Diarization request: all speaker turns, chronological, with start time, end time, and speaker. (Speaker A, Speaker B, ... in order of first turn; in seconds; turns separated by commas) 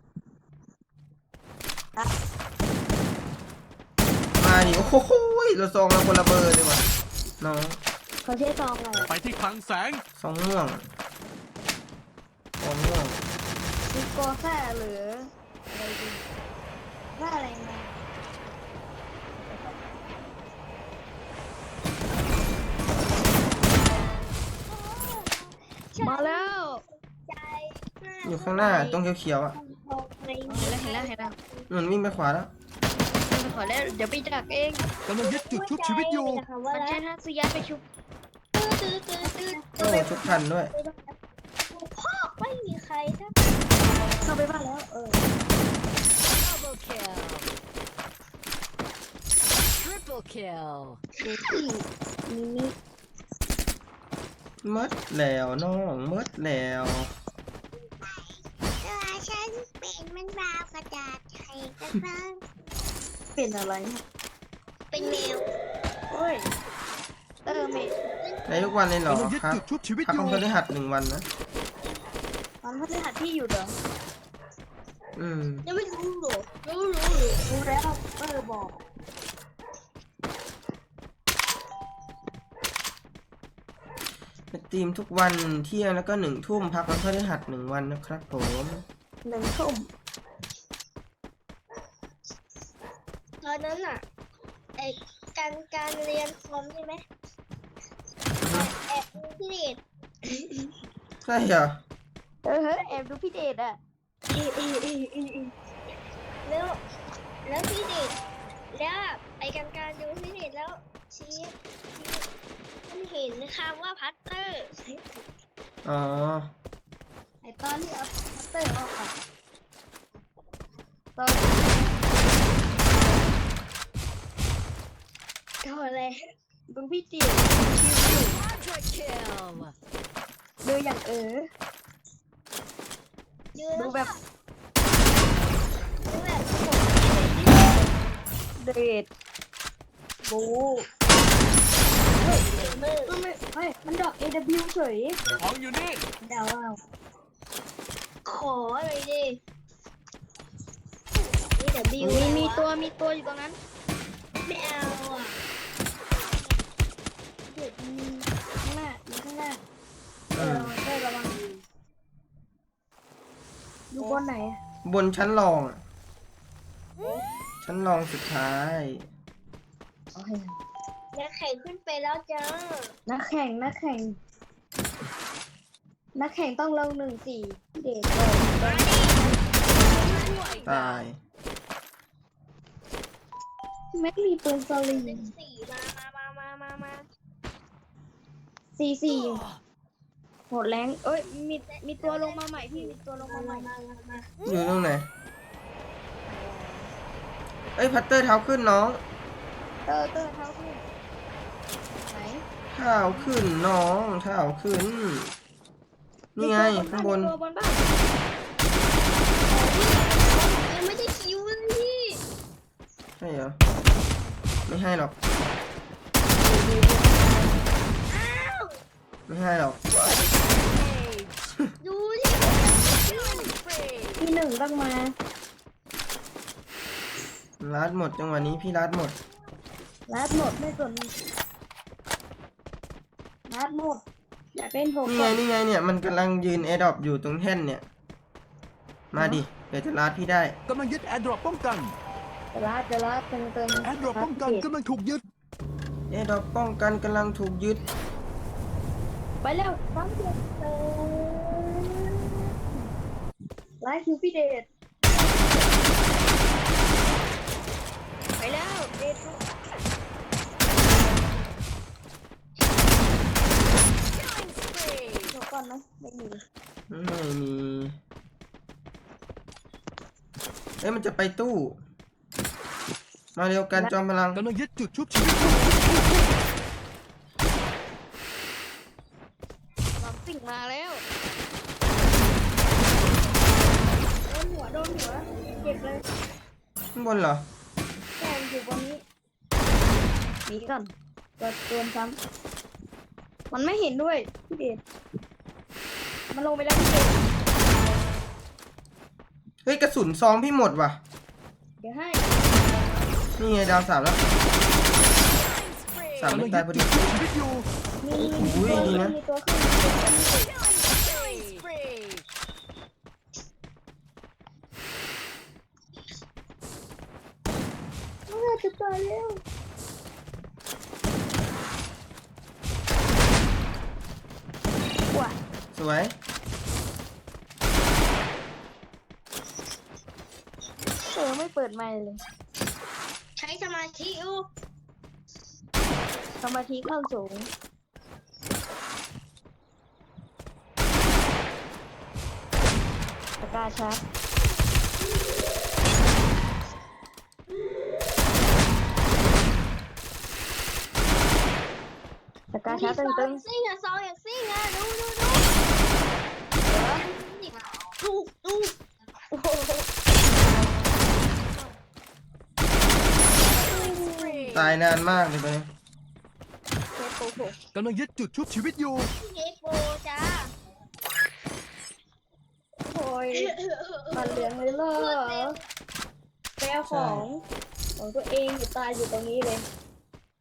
Speaker A: 4.4-6.8, Speaker A: 7.4-7.8, Speaker B: 8.2-9.1, Speaker C: 9.1-10.0, Speaker A: 10.2-10.8, Speaker A: 12.6-13.2, Speaker B: 13.9-16.2, Speaker B: 17.1-17.9, Speaker B: 19.4-19.8, Speaker D: 23.4-23.8, Speaker D: 24.6-29.0, Speaker B: 26.0-26.8, Speaker A: 28.2-29.6, Speaker D: 29.5-31.6, Speaker B: 30.5-31.3, Speaker A: 31.7-32.5, Speaker B: 33.3-34.9, Speaker D: 33.4-37.0, Speaker C: 35.0-36.4, Speaker B: 36.6-37.8, Speaker D: 38.5-41.0, Speaker B: 39.2-40.2, Speaker A: 39.8-40.7, Speaker D: 41.7-43.4, Speaker B: 44.2-45.2, Speaker E: 46.4-47.5, Speaker E: 49.8-51.0, Speaker B: 51.2-52.7, Speaker A: 54.6-57.1, Speaker D: 58.0-62.3, Speaker B: 63.4-64.0, Speaker D: 64.9-65.5, Speaker B: 66.1-66.5, Speaker B: 67.5-68.0, Speaker D: 67.5-68.7, Speaker A: 68.5-71.2, Speaker C: 69.1-70.4, Speaker B: 72.6-73.7, Speaker A: 75.2-75.6, Speaker D: 75.6-77.4, Speaker B: 77.5-78.8, Speaker A: 84.5-88.8, Speaker B: 89.2-89.9, Speaker D: 93.4-94.0, Speaker D: 94.8-97.0, Speaker A: 98.4-98.7, Speaker D: 98.5-100.7, Speaker A: 101.2-101.8, Speaker B: 102.4-103.8, Speaker D: 104.3-105.5, Speaker D: 106.5-106.8, Speaker D: 107.4-108.2, Speaker D: 108.7-112.2, Speaker D: 112.9-114.8, Speaker A: 115.8-116.5, Speaker B: 117.4-119.1, Speaker B: 121.2-121.9, Speaker D: 125.6-126.2, Speaker B: 126.7-128.3, Speaker E: 128.2-129.7, Speaker B: 130.6-131.5, Speaker D: 133.5-134.1, Speaker B: 133.7-134.1, Speaker D: 136.1-138.1, Speaker B: 138.6-139.1, Speaker B: 140.3-140.8, Speaker B: 142.2-145.2, Speaker D: 142.2-143.2, Speaker C: 145.4-146.0, Speaker D: 146.2-146.8, Speaker D: 148.2-149.4, Speaker D: 151.5-152.8, Speaker A: 152.0-152.3, Speaker B: 152.0-153.6, Speaker D: 154.4-155.4, Speaker B: 157.5-159.6, Speaker A: 160.3-160.7, Speaker B: 160.3-161.5, Speaker B: 163.9-164.6, Speaker A: 164.8-165.8, Speaker A: 167.6-169.0, Speaker B: 170.1-170.5, Speaker D: 171.1-172.9, Speaker B: 173.1-174.2, Speaker B: 176.1-179.4, Speaker D: 178.6-180.8, Speaker E: 180.0-180.9, Speaker A: 180.6-181.2, Speaker B: 183.9-185.3, Speaker D: 184.9-187.0, Speaker B: 188.8-189.4, Speaker B: 190.5-193.7, Speaker D: 191.6-194.3, Speaker A: 194.4-195.1, Speaker B: 196.3-196.9, Speaker A: 197.7-199.0, Speaker B: 199.8-200.8, Speaker B: 202.0-202.4, Speaker A: 202.7-205.3, Speaker A: 206.3-207.3, Speaker B: 206.4-207.9, Speaker D: 209.5-212.2, Speaker A: 213.2-213.6, Speaker A: 214.7-215.1, Speaker B: 216.4-217.7, Speaker D: 218.1-218.7, Speaker A: 219.3-220.1, Speaker E: 220.5-221.5, Speaker D: 221.8-223.5, Speaker E: 222.9-224.3, Speaker B: 224.2-225.1, Speaker A: 227.6-229.1, Speaker B: 230.1-231.1, Speaker B: 233.5-234.0, Speaker B: 234.5-235.4, Speaker A: 235.1-237.8, Speaker A: 239.1-240.6, Speaker B: 239.2-239.4, Speaker C: 240.7-241.9, Speaker B: 242.5-244.7, Speaker C: 243.8-245.2, Speaker A: 246.1-247.8, Speaker B: 249.4-250.4, Speaker D: 250.6-252.4, Speaker B: 253.8-254.7, Speaker B: 258.4-259.4, Speaker E: 264.1-265.4, Speaker B: 265.3-266.4, Speaker A: 266.9-267.9, Speaker A: 270.8-271.8, Speaker A: 273.4-274.4, Speaker C: 274.3-276.1, Speaker B: 280.0-281.0, Speaker B: 284.2-286.0, Speaker A: 286.9-287.4, Speaker B: 288.2-289.0, Speaker B: 290.5-292.2, Speaker B: 293.5-294.8, Speaker B: 296.3-297.2, Speaker A: 299.6-301.0, Speaker B: 301.8-302.2, Speaker A: 303.4-304.2, Speaker E: 305.2-306.4, Speaker A: 306.2-306.9, Speaker C: 306.3-307.6, Speaker B: 308.0-310.5, Speaker A: 308.2-309.1, Speaker E: 310.3-312.2, Speaker D: 311.0-311.6, Speaker B: 318.3-319.4, Speaker B: 325.1-325.4, Speaker A: 325.7-326.1, Speaker B: 331.0-332.2, Speaker D: 333.4-334.5, Speaker B: 336.4-337.5, Speaker B: 343.4-344.0, Speaker B: 352.5-353.4, Speaker D: 352.6-355.5, Speaker B: 356.6-357.1, Speaker D: 356.9-358.8, Speaker B: 359.3-359.9, Speaker B: 363.4-364.3, Speaker D: 363.5-364.5, Speaker E: 363.7-364.8, Speaker A: 364.5-365.7, Speaker B: 367.0-367.6, Speaker C: 367.7-369.1, Speaker D: 369.2-370.5, Speaker B: 372.9-373.5, Speaker D: 373.4-375.6, Speaker B: 374.1-375.5, Speaker B: 376.6-377.4, Speaker A: 376.9-377.2, Speaker B: 378.0-379.6